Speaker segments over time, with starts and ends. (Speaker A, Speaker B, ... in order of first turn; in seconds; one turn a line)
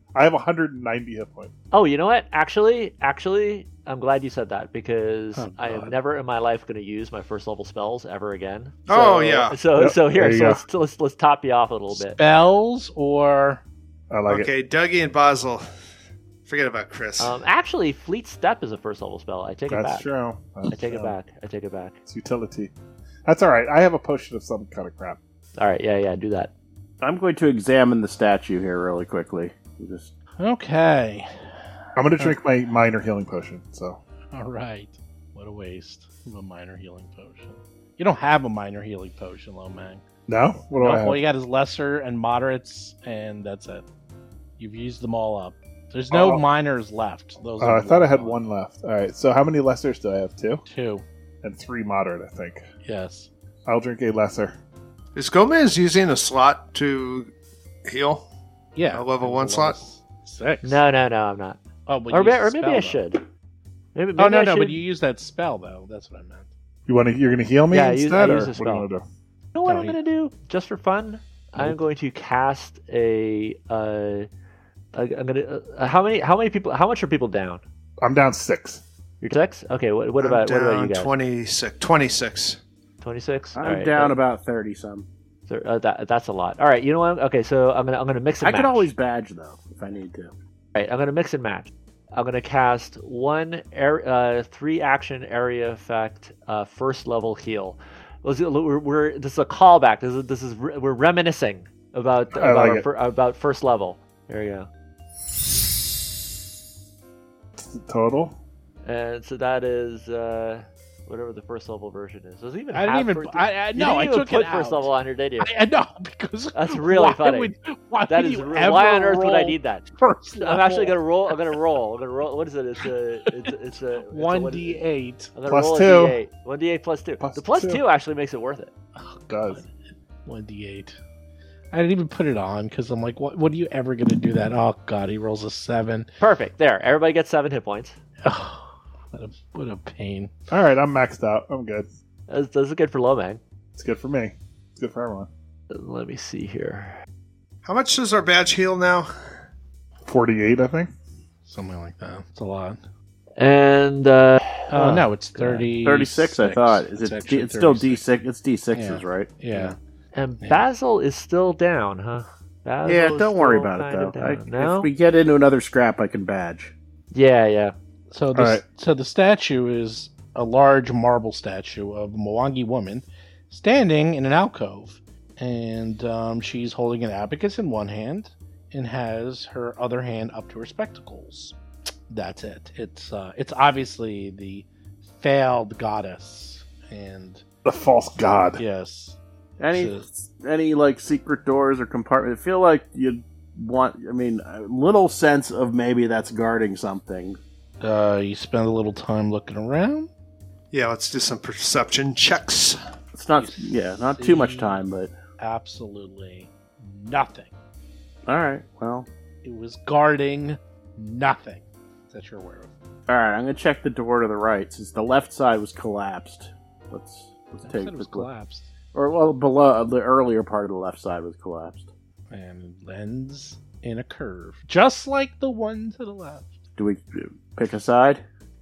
Speaker A: 0.1-1.5
Speaker B: 1.7-12.2
Speaker C: 5.3-5.9
Speaker D: 8.9-9.6
Speaker A: 9.7-10.6
Speaker C: 12.0-13.6
Speaker A: 14.1-14.5
Speaker D: 14.3-15.6
Speaker D: 16.4-17.4
Speaker B: 17.2-20.1
Speaker A: 19.7-21.1
Speaker B: 20.7-22.0
Speaker A: 22.1-22.7
Speaker A: 23.2-25.2
Speaker B: 25.6-26.5
Speaker E: 27.0-30.1
Speaker C: 30.4-31.3
Speaker A: 31.9-34.0
Speaker C: 34.3-40.0
Speaker A: 40.3-41.2
Speaker C: 40.7-43.8
Speaker C: 44.6-48.4
Speaker A: 46.1-46.4
Speaker A: 47.6-50.6
Speaker C: 50.6-51.0
Speaker A: 51.4-52.6
Speaker C: 52.8-53.3
Speaker A: 53.6-54.6
Speaker D: 55.1-57.3
Speaker D: 57.9-58.2
Speaker C: 58.7-60.8
Speaker D: 58.9-59.8
Speaker B: 60.6-63.2
Speaker C: 61.9-63.0
Speaker B: 63.9-64.8
Speaker C: 64.2-66.5
Speaker A: 66.9-69.0
Speaker B: 67.7-68.9
Speaker B: 69.5-74.3
Speaker C: 69.7-70.0
Speaker B: 74.9-77.6
Speaker A: 78.0-78.8
Speaker B: 79.2-81.1
Speaker D: 80.2-82.6
Speaker B: 83.0-84.2
Speaker E: 83.5-85.1
Speaker B: 85.5-88.9
Speaker E: 88.4-90.3
Speaker B: 90.7-104.7
Speaker A: 102.3-102.8
Speaker A: 107.6-108.4
Speaker B: 108.8-115.5
Speaker C: 112.7-121.4
Speaker B: 116.5-117.5
Speaker B: 118.1-119.9
Speaker B: 120.4-124.8
Speaker C: 124.1-125.3
Speaker B: 125.3-128.7
Speaker A: 125.5-126.2
Speaker A: 127.2-127.8
Speaker C: 128.9-129.7
Speaker A: 129.3-129.6
Speaker C: 130.2-131.0
Speaker C: 131.7-136.1
Speaker B: 136.2-138.0
Speaker C: 138.2-140.3
Speaker A: 140.5-141.9
Speaker B: 142.3-143.4
Speaker A: 143.8-145.3
Speaker B: 145.7-147.0
Speaker D: 147.6-149.1
Speaker A: 150.0-150.9
Speaker C: 151.4-152.8
Speaker B: 153.4-155.7
Speaker C: 154.7-158.0
Speaker E: 155.8-159.4
Speaker C: 158.7-159.8
Speaker B: 160.1-164.9
Speaker E: 162.8-166.7
Speaker B: 167.1-167.7
Speaker C: 168.1-181.6
Speaker A: 168.3-168.6
Speaker C: 182.1-187.4
Speaker A: 187.6-188.6
Speaker C: 188.6-189.2
Speaker E: 189.6-197.4
Speaker C: 189.7-190.1
Speaker C: 197.8-200.1
Speaker D: 200.7-202.8
Speaker E: 203.1-205.1
Speaker C: 203.4-204.8
Speaker C: 205.4-207.5
Speaker E: 208.3-209.1
Speaker C: 209.4-212.7
Speaker E: 213.1-218.3
Speaker C: 217.6-218.7
Speaker E: 218.9-221.9
Speaker C: 222.3-226.5
Speaker E: 226.8-228.2